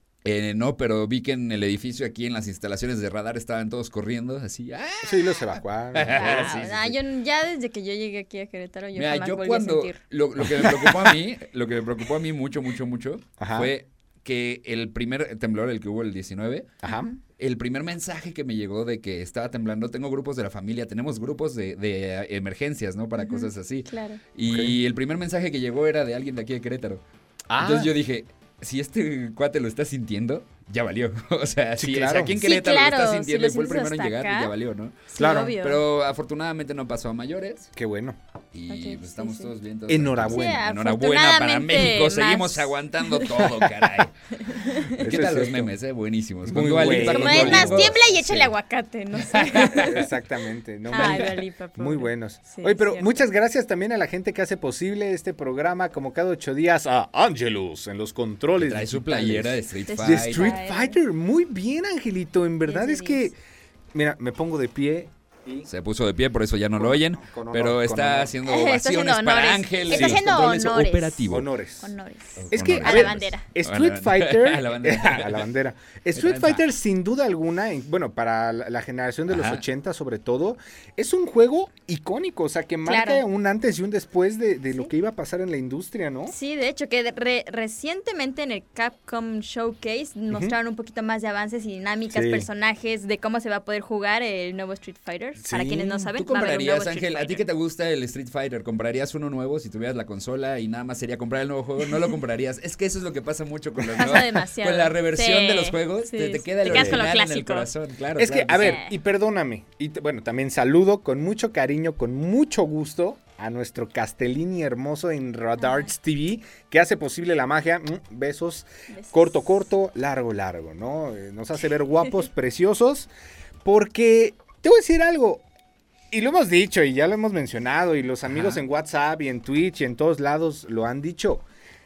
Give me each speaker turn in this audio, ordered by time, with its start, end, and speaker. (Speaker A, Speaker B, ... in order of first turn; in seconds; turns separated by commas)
Speaker A: 0.2-7.0, Speaker B: 5.0-6.5, Speaker C: 6.1-10.0, Speaker A: 8.9-16.8, Speaker B: 10.4-11.1, Speaker B: 13.4-13.7, Speaker B: 16.8-17.1, Speaker C: 16.9-17.2, Speaker A: 17.4-27.0, Speaker C: 23.2-24.2, Speaker B: 24.5-24.8, Speaker B: 27.5-27.9, Speaker A: 27.6-37.7, Speaker B: 31.8-32.4, Speaker C: 32.4-34.5, Speaker C: 35.1-35.8, Speaker B: 35.2-35.6, Speaker B: 37.8-38.2, Speaker A: 38.5-44.1, Speaker C: 38.7-39.5, Speaker B: 39.9-40.6, Speaker C: 40.3-43.7, Speaker C: 44.4-45.0, Speaker A: 44.8-48.0, Speaker B: 45.0-45.7, Speaker B: 46.5-48.5, Speaker C: 46.8-50.1, Speaker A: 49.2-50.0, Speaker B: 49.7-63.4, Speaker C: 50.9-53.2, Speaker A: 50.9-51.3, Speaker A: 58.6-60.6, Speaker C: 59.9-61.0, Speaker C: 62.6-63.3, Speaker B: 63.9-65.7, Speaker A: 65.7-71.5, Speaker B: 66.8-68.3, Speaker C: 68.4-71.3, Speaker B: 69.9-70.3, Speaker B: 71.3-71.9, Speaker C: 71.8-73.5, Speaker A: 72.4-75.5, Speaker B: 72.5-86.3, Speaker A: 76.2-76.7, Speaker A: 79.3-79.6, Speaker C: 82.8-83.2, Speaker C: 86.3-97.4, Speaker B: 92.1-92.5, Speaker B: 95.4-96.1, Speaker A: 96.2-108.8, Speaker C: 103.9-107.7, Speaker B: 106.7-107.0, Speaker B: 108.2-123.1, Speaker C: 108.6-108.9, Speaker C: 115.6-115.9, Speaker C: 118.9-119.3, Speaker B: 123.6-125.4, Speaker B: 126.1-131.4, Speaker A: 128.3-128.6